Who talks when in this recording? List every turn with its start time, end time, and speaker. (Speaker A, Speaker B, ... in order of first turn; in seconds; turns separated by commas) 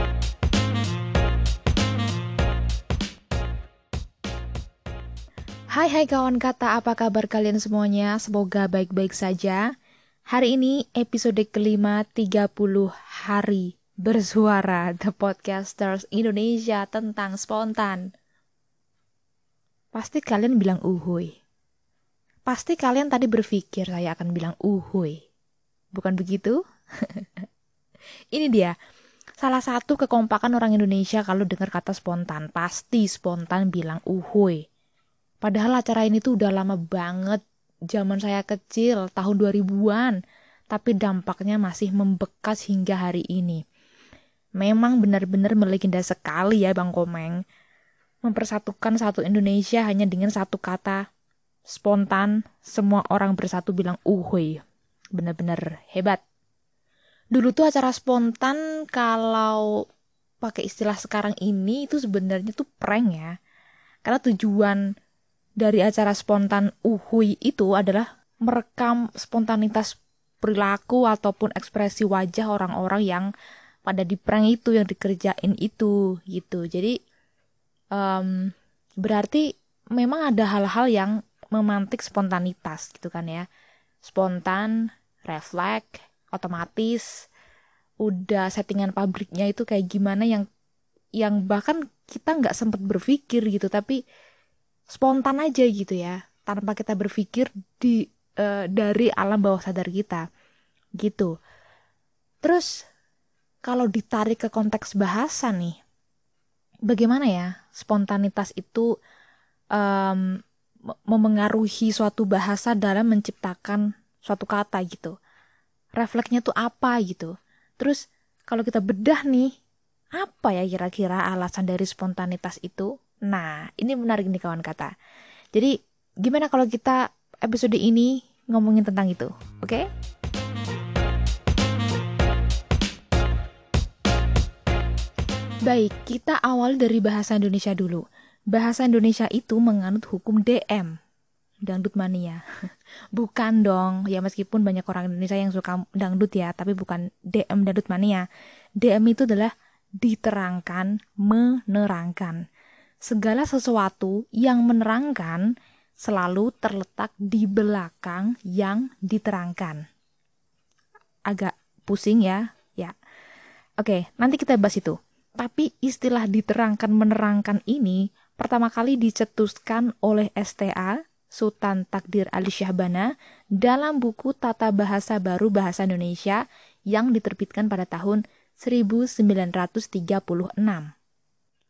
Speaker A: 5.7-9.6, Speaker A: 10.3-18.1, Speaker A: 19.9-21.4, Speaker A: 22.5-25.2, Speaker A: 25.9-27.4, Speaker A: 28.3-28.7, Speaker A: 29.4-34.6, Speaker A: 35.4-37.4, Speaker A: 37.9-40.2, Speaker A: 40.7-43.6, Speaker A: 44.6-47.4, Speaker A: 48.2-51.0, Speaker A: 51.7-54.6, Speaker A: 55.1-56.2, Speaker A: 57.3-59.8, Speaker A: 60.4-63.3, Speaker A: 64.0-64.8, Speaker A: 65.6-73.3, Speaker A: 73.8-77.0, Speaker A: 78.0-83.5, Speaker A: 84.0-84.7, Speaker A: 85.3-87.1, Speaker A: 88.0-90.5, Speaker A: 91.2-94.0, Speaker A: 94.9-100.2, Speaker A: 101.0-101.3, Speaker A: 102.4-102.7, Speaker A: 103.6-105.8, Speaker A: 106.9-108.8, Speaker A: 109.7-110.3, Speaker A: 111.1-115.1, Speaker A: 116.0-119.5, Speaker A: 120.2-124.9, Speaker A: 125.5-129.8, Speaker A: 135.7-140.9, Speaker A: 141.6-142.4, Speaker A: 143.1-148.2, Speaker A: 148.8-152.4, Speaker A: 153.0-155.5, Speaker A: 156.0-159.8, Speaker A: 161.3-162.9, Speaker A: 163.8-176.4, Speaker A: 176.9-180.9